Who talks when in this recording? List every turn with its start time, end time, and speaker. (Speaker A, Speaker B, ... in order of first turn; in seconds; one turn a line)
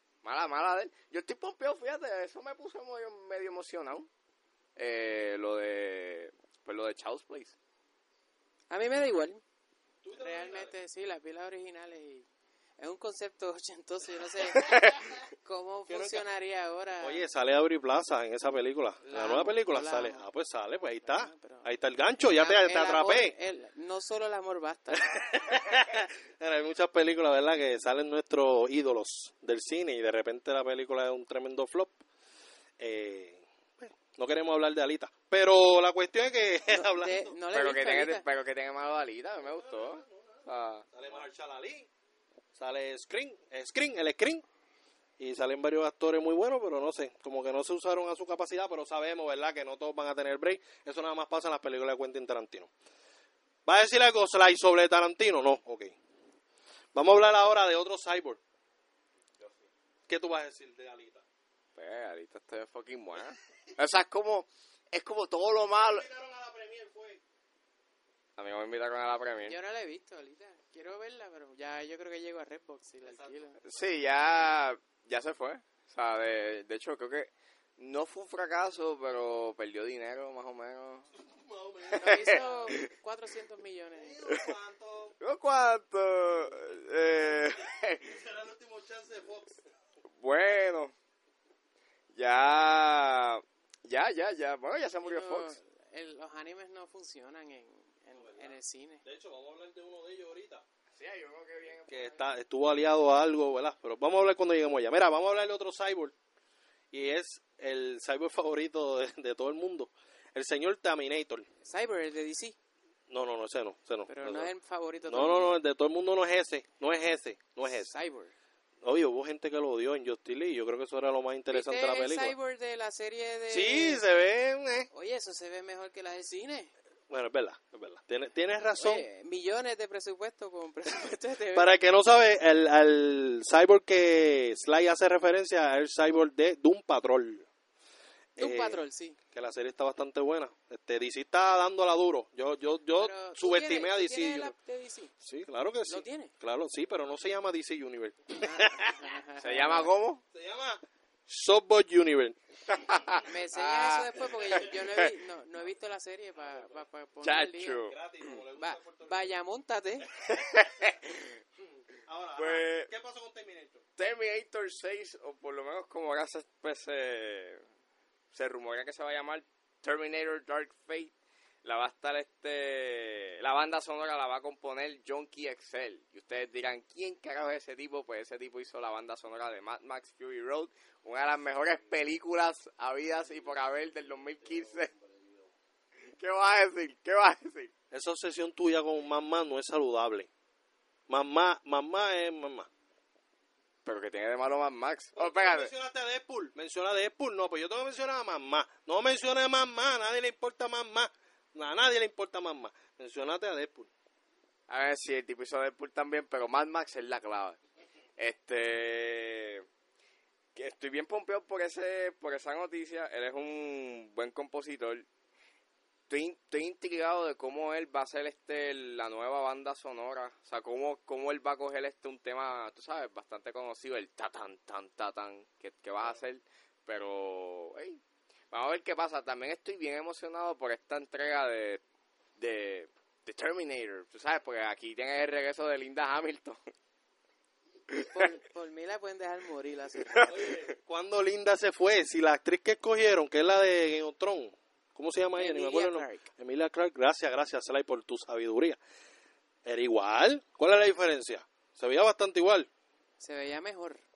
Speaker A: 0.2-4.1
Speaker A: 4.8-7.5
Speaker B: 8.7-9.4
Speaker C: 10.0-10.7
Speaker B: 10.1-12.2
Speaker B: 12.8-17.3
Speaker A: 14.5-15.0
Speaker C: 15.9-16.2
Speaker C: 17.0-23.3
Speaker B: 19.0-20.2
Speaker B: 21.0-21.7
Speaker B: 22.3-25.6
Speaker C: 25.0-32.0
Speaker C: 32.8-37.4
Speaker B: 36.7-38.2
Speaker A: 37.5-40.9
Speaker C: 39.4-41.9
Speaker C: 42.5-44.4
Speaker C: 45.2-52.7
Speaker C: 53.6-55.9
Speaker C: 56.9-58.4
Speaker A: 59.4-59.7
Speaker C: 60.1-61.2
Speaker A: 61.8-66.1
Speaker C: 65.8-67.2
Speaker A: 68.4-69.5
Speaker B: 69.5-73.6
Speaker C: 73.0-73.5
Speaker A: 73.6-81.1
Speaker C: 81.2-82.7
Speaker A: 81.9-82.9
Speaker B: 81.9-84.2
Speaker C: 84.0-85.2
Speaker A: 84.3-84.5
Speaker A: 85.2-88.2
Speaker C: 87.5-89.6
Speaker A: 90.2-90.9
Speaker A: 92.1-95.6
Speaker B: 95.0-99.0
Speaker C: 98.2-100.6
Speaker A: 101.0-102.2
Speaker C: 101.9-106.1
Speaker C: 106.9-111.5
Speaker B: 111.6-112.5
Speaker C: 113.1-114.5
Speaker B: 114.1-115.5
Speaker C: 115.1-117.9
Speaker B: 117.7-118.3
Speaker C: 118.8-122.3
Speaker B: 121.5-124.0
Speaker C: 123.5-124.9
Speaker B: 124.9-126.7
Speaker C: 127.1-129.1
Speaker B: 128.8-131.7
Speaker C: 131.5-137.5
Speaker B: 138.4-139.2
Speaker C: 138.4-144.5
Speaker B: 142.9-145.1
Speaker C: 145.2-149.1
Speaker B: 145.9-146.3
Speaker B: 148.4-149.9
Speaker A: 149.4-150.2
Speaker C: 150.3-152.4
Speaker A: 152.7-155.1
Speaker B: 153.2-157.8
Speaker C: 156.4-156.8
Speaker A: 157.2-158.0
Speaker C: 157.9-159.3
Speaker B: 158.6-160.1
Speaker A: 160.2-161.4
Speaker C: 162.0-163.8
Speaker A: 162.3-162.9
Speaker A: 164.0-167.6
Speaker A: 168.3-171.1
Speaker A: 171.6-184.9
Speaker A: 186.1-187.7
Speaker C: 187.9-190.3
Speaker C: 191.1-192.7
Speaker A: 193.8-195.7
Speaker C: 195.2-203.9
Speaker A: 204.7-207.6
Speaker A: 208.2-209.7
Speaker A: 210.5-215.1
Speaker A: 216.1-228.0
Speaker A: 228.5-231.8
Speaker A: 232.4-236.6
Speaker A: 237.9-238.3
Speaker B: 238.1-240.5
Speaker A: 240.1-240.6
Speaker C: 240.3-248.8
Speaker B: 245.3-246.2
Speaker C: 249.6-252.7
Speaker B: 253.2-254.0